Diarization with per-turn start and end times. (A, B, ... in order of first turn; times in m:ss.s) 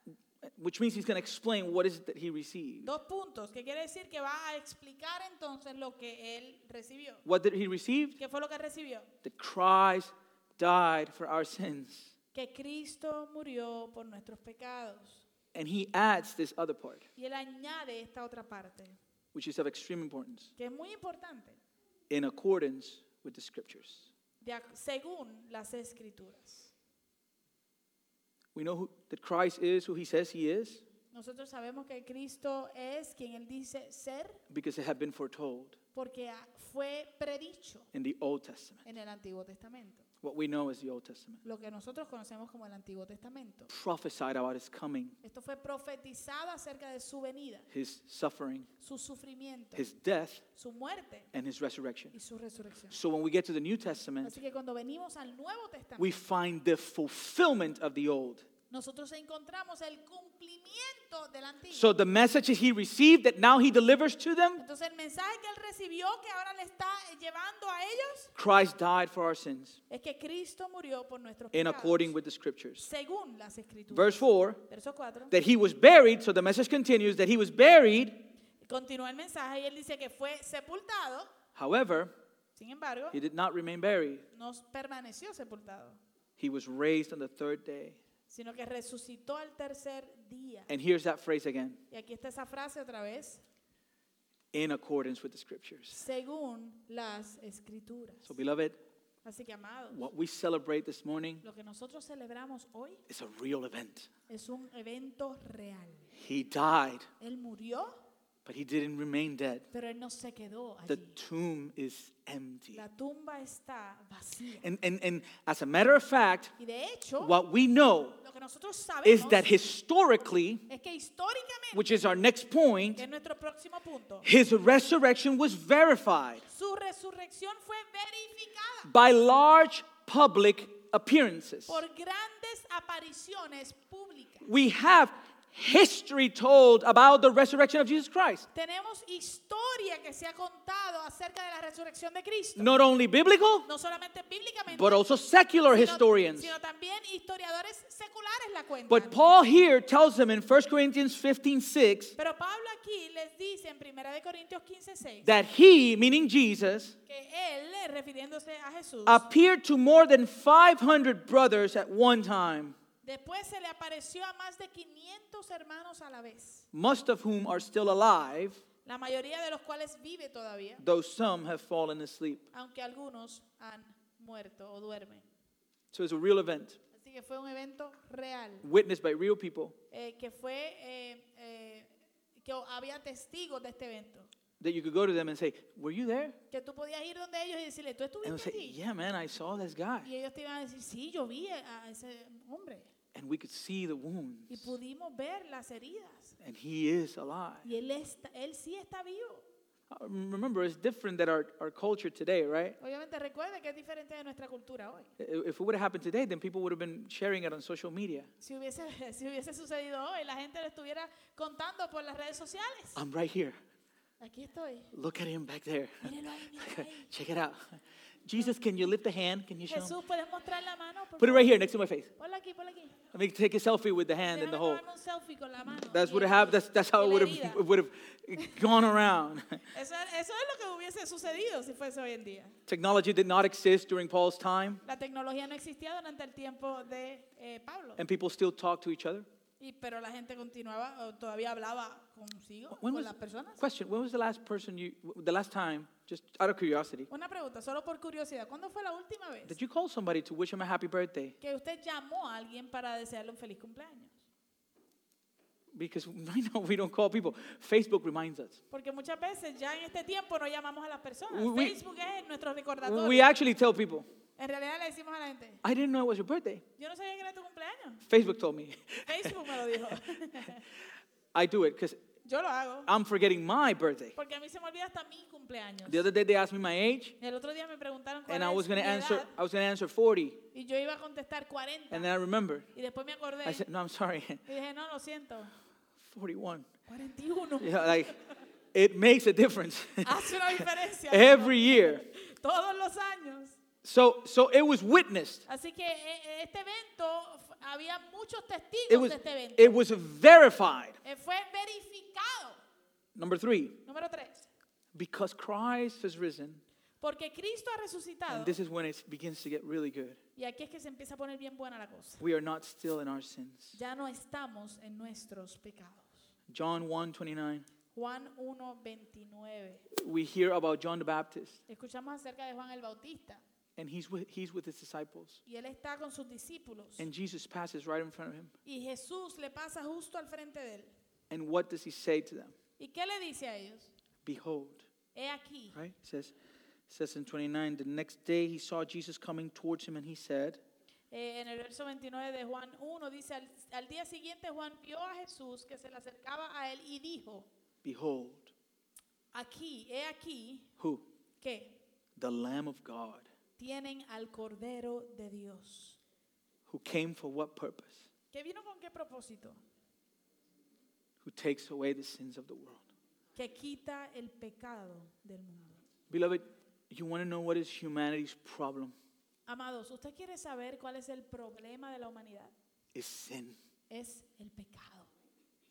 0:00.4-0:02.9 A
0:02.8-0:07.2 B
0:07.2-0:08.2 A
0:08.2-0:09.1 B
0:09.2-0:12.1 A
0:12.3-0:15.2 B
0:15.5-0:17.1 A
0:17.2-0:19.0 B
0:19.3-0:20.5 A
0:20.6-0:21.6 B
0:22.1-0:24.1 A
0:24.4-0:26.7 B
0:28.5-0:30.8 A
0:31.1-0:34.4 B
0:34.5-0:35.8 A
0:35.9-0:37.9 B
0:37.9-0:38.8 A
0:38.8-0:40.1 B
0:40.2-0:41.4 A
0:41.4-0:43.7 B
0:43.7-0:45.2 A
0:45.2-0:47.7 B
0:47.7-0:48.7 A
0:48.8-0:49.9 B
0:49.8-0:50.4 A
0:50.5-0:51.3 B
0:51.3-0:52.1 A
0:52.1-0:53.0 B
0:52.9-0:54.4 A
0:54.2-0:56.1 B
0:56.0-0:58.4 A
0:58.7-1:01.9 B
1:01.7-1:04.6 A
1:04.6-1:08.3 B
1:08.4-1:09.8 A
1:09.9-1:12.1 B
1:11.5-1:12.8 A
1:12.8-1:15.3 B
1:13.9-1:14.6 A
1:15.3-1:18.2 A
1:18.6-1:21.3 B
1:21.6-1:22.1 A
1:22.6-1:23.2 B
1:23.1-1:24.2 A
1:24.3-1:26.0 B
1:26.4-1:28.0 A
1:28.3-1:30.7 B
1:30.7-1:31.8 A
1:31.9-1:33.4 B
1:34.5-1:36.0 A
1:35.9-1:38.3 B
1:38.2-1:38.8 A
1:39.2-1:40.0 B
1:39.9-1:41.4 A
1:41.4-1:43.0 B
1:43.1-1:44.1 A
1:44.3-1:46.1 B
1:46.2-1:47.1 A
1:47.2-1:48.0 B
1:48.4-1:49.6 A
1:49.7-1:51.1 B
1:50.9-1:52.8 A
1:52.7-1:54.7 B
1:54.6-1:56.5 A
1:56.6-1:57.4 B
1:57.2-1:58.2 A
1:58.2-1:59.5 B
1:59.0-2:00.6 A
2:00.7-2:01.9 B
2:01.7-2:03.0 A
2:03.0-2:04.3 B
2:04.2-2:06.4 A
2:06.5-2:08.9 B
2:08.8-2:11.8 A
2:11.7-2:14.4 B
2:14.4-2:18.5 A
2:18.5-2:22.7 B
2:22.6-2:23.6 A
2:23.6-2:25.0 B
2:24.7-2:26.5 A
2:25.7-2:29.2 B
2:28.9-2:32.1 A
2:32.2-2:35.3 B
2:35.2-2:37.0 A
2:37.1-2:39.3 B
2:39.1-2:42.8 A
2:43.0-2:46.7 B
2:46.7-2:48.6 A
2:48.8-2:50.8 B
2:50.8-2:52.5 A
2:52.5-2:55.3 B
2:55.9-2:56.8 A
2:56.9-2:58.7 B
2:58.6-2:59.8 A
2:59.9-3:04.3 B
3:04.6-3:06.4 A
3:06.5-3:08.8 B
3:08.2-3:10.1 A
3:10.0-3:12.9 B
3:13.1-3:14.7 A
3:14.5-3:16.4 B
3:16.4-3:17.7 A
3:17.6-3:19.4 B
3:19.9-3:22.8 A
3:22.8-3:25.1 B
3:25.2-3:28.3 A
3:28.4-3:33.0 B
3:33.0-3:33.6 A
3:34.2-3:34.9 B
3:34.9-3:39.9 A
3:36.0-3:37.1 B
3:39.7-3:41.6 B
3:41.2-3:42.1 A
3:42.2-3:43.0 B
3:43.1-3:44.8 A
3:44.2-3:47.6 B
3:45.7-3:49.6 A
3:48.4-3:48.7 B
3:49.7-3:52.6 B
3:52.7-3:54.8 A
3:54.8-3:58.0 B
3:58.0-3:59.2 A
3:59.6-4:03.6 B
4:02.7-4:07.1 A
4:07.1-4:09.6 B
4:09.4-4:11.3 A
4:11.4-4:14.2 B
4:15.7-4:18.6 A
4:18.7-4:23.3 B
4:21.3-4:21.8 A
4:22.8-4:24.1 A
4:24.4-4:25.6 B
4:25.6-4:26.6 A
4:26.8-4:28.0 B
4:28.1-4:29.3 A
4:29.0-4:30.6 B
4:31.3-4:32.0 A
4:32.2-4:32.9 B
4:32.8-4:34.1 A
4:34.1-4:36.0 B
4:35.9-4:37.2 A
4:37.2-4:39.3 B
4:38.3-4:40.4 A
4:40.5-4:42.1 B
4:41.9-4:42.7 A
4:42.7-4:43.7 B
4:43.4-4:44.4 A
4:44.4-4:45.5 B
4:46.0-4:46.7 A
4:46.9-4:48.1 B
4:47.6-4:48.1 A
4:48.7-4:52.0 A
4:50.0-4:53.6 B
4:53.8-4:55.4 A
4:55.5-4:59.8 B
4:58.9-5:01.0 A
5:01.0-5:02.6 B
5:03.2-5:03.8 A
5:03.8-5:04.5 B
5:04.9-5:06.6 A
5:07.0-5:08.6 B
5:08.3-5:10.2 A
5:10.4-5:12.2 B
5:12.2-5:13.8 A
5:13.7-5:16.2 B
5:16.5-5:17.7 A
5:17.9-5:19.8 B
5:19.9-5:21.6 A
5:21.7-5:23.4 B
5:23.8-5:25.4 A
5:25.4-5:27.1 B
5:27.0-5:28.5 A
5:28.6-5:30.9 B
5:31.3-5:32.5 A
5:32.8-5:33.9 B
5:34.2-5:34.8 A
5:35.1-5:35.8 B
5:35.7-5:36.3 A
5:36.9-5:40.6 A
5:41.1-5:47.5 B
5:47.8-5:48.5 A
5:49.3-5:50.7 B
5:50.8-5:51.0 A
5:51.4-5:51.8 B
5:52.2-5:53.3 A
5:53.6-5:56.0 B
5:56.7-5:58.1 A
5:58.3-5:59.6 B
6:01.2-6:02.8 A
6:03.3-6:05.8 B
6:06.1-6:08.9 A
6:09.4-6:12.5 B
6:12.9-6:13.6 A
6:13.9-6:15.1 B